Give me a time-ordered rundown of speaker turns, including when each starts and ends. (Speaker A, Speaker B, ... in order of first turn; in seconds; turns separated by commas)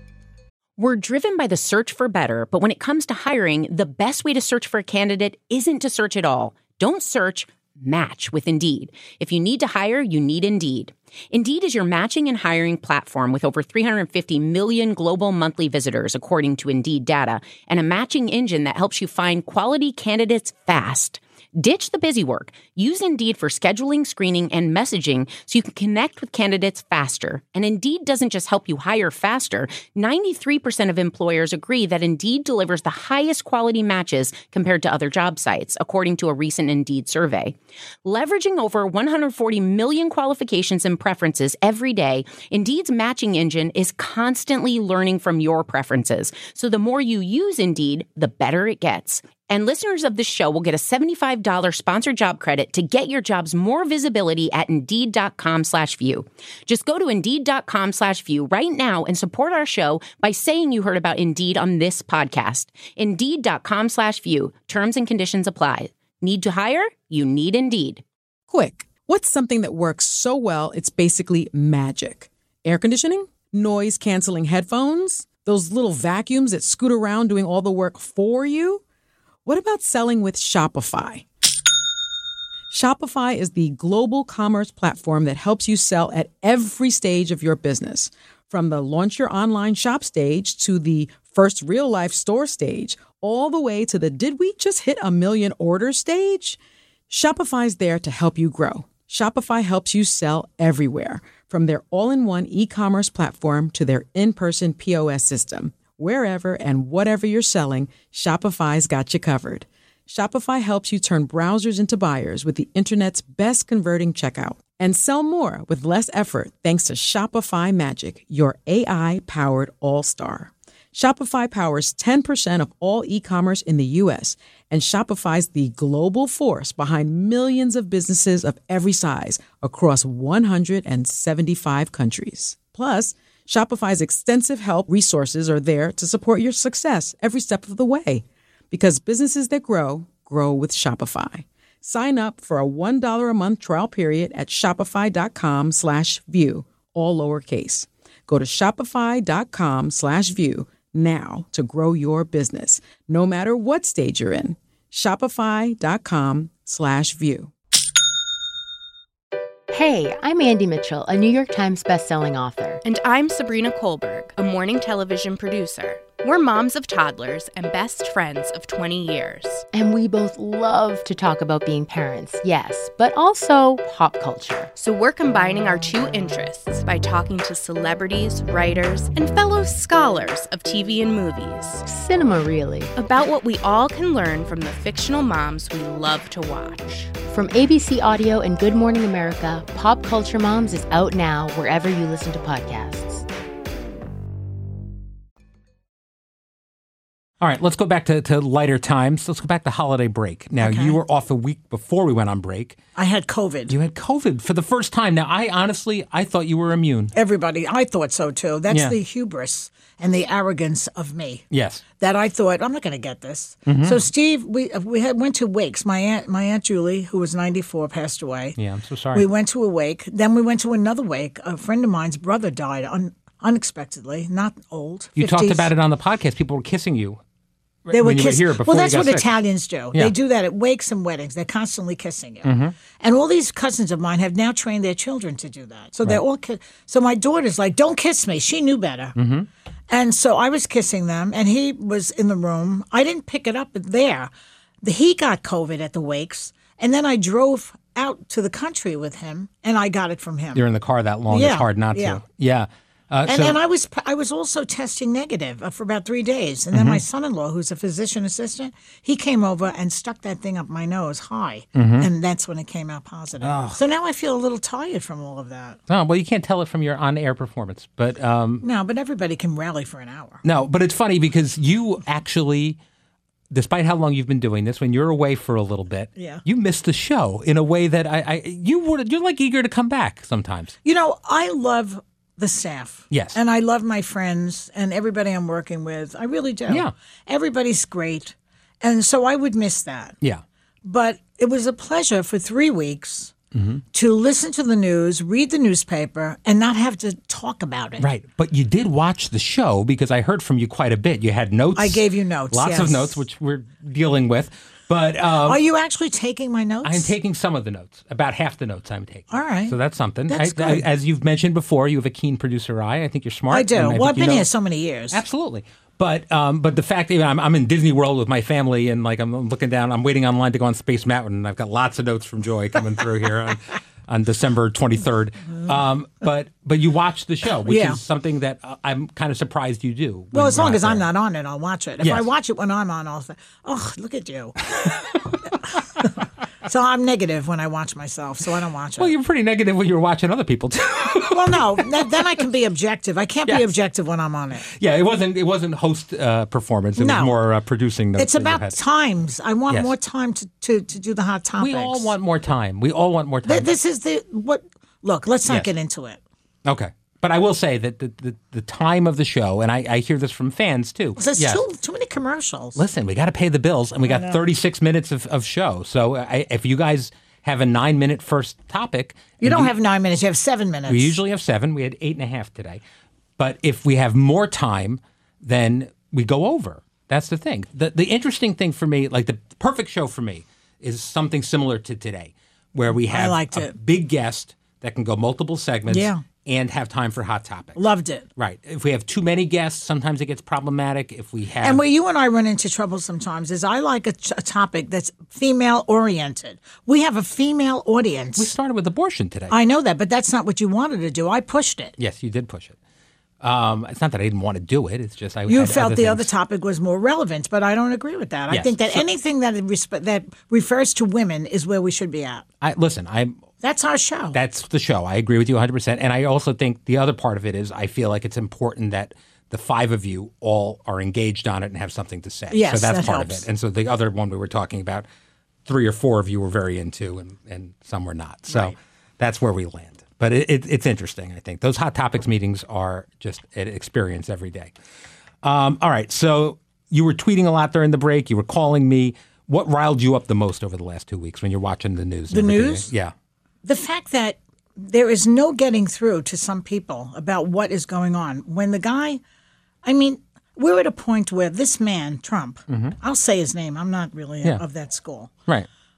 Speaker A: 0.8-68.0, Speaker B: 68.5-78.8, Speaker B: 79.5-81.2, Speaker B: 82.7-157.5, Speaker C: 159.7-162.8, Speaker D: 162.8-169.7, Speaker C: 169.7-174.7, Speaker D: 174.8-181.8, Speaker C: 181.9-182.9, Speaker D: 183.0-187.2, Speaker C: 187.2-193.2, Speaker E: 197.4-202.8, Speaker F: 200.6-201.0, Speaker F: 203.0-203.8, Speaker E: 203.7-207.1, Speaker F: 207.2-211.4, Speaker E: 208.7-209.0, Speaker E: 211.5-211.8, Speaker F: 212.0-218.6, Speaker E: 213.7-214.0, Speaker E: 218.6-219.3, Speaker F: 219.1-225.7, Speaker E: 225.2-227.2, Speaker E: 227.9-229.3, Speaker F: 227.9-239.2, Speaker E: 232.4-232.8, Speaker E: 239.2-239.5, Speaker F: 239.9-244.3, Speaker F: 244.8-250.6, Speaker E: 250.5-253.6, Speaker F: 251.3-252.2, Speaker F: 253.3-265.8, Speaker E: 256.7-257.0, Speaker E: 261.8-262.1, Speaker E: 263.4-263.8, Speaker E: 265.9-268.6, Speaker F: 268.6-270.4, Speaker E: 270.4-272.8, Speaker E: 273.5-280.8, Speaker F: 276.2-276.4, Speaker F: 280.8-290.2, Speaker E: 283.1-283.4, Speaker E: 286.7-286.9, Speaker F: 290.8-293.3, Speaker E: 293.5-293.8, Speaker F: 293.9-298.1, Speaker E: 298.0-305.6, Speaker F: 301.8-303.2, Speaker F: 305.4-307.1, Speaker E: 306.8-314.5, Speaker F: 309.3-309.8, Speaker F: 310.3-310.9, Speaker F: 313.5-315.2, Speaker E: 315.1-331.1, Speaker F: 327.6-328.0, Speaker F: 330.3-335.2, Speaker E: 332.0-332.3, Speaker F: 336.7-339.1, Speaker E: 339.0-341.5, Speaker F: 341.3-344.7, Speaker E: 343.5-343.7, Speaker E: 344.7-348.8, Speaker F: 347.0-347.3, Speaker F: 348.1-352.1, Speaker E: 351.6-353.7, Speaker F: 353.4-356.2, Speaker E: 356.6-361.6, Speaker F: 361.2-362.8, Speaker E: 362.8-369.7, Speaker F: 364.1-364.4, Speaker F: 369.4-371.2, Speaker E: 370.9-372.8, Speaker E: 373.4-387.8, Speaker F: 382.9-383.7, Speaker F: 385.9-386.2, Speaker F: 387.8-388.3, Speaker E: 388.4-391.8, Speaker F: 391.6-398.5, Speaker E: 398.4-399.6, Speaker F: 399.5-401.9, Speaker E: 402.0-402.8, Speaker E: 403.4-406.3, Speaker F: 405.5-412.4, Speaker E: 408.5-409.1, Speaker E: 412.6-413.4, Speaker F: 413.6-414.4, Speaker E: 414.3-425.1, Speaker F: 422.5-423.5, Speaker E: 425.7-434.7, Speaker E: 435.4-443.1, Speaker F: 442.3-442.9, Speaker F: 443.6-449.2, Speaker F: 449.8-455.3, Speaker E: 452.7-453.0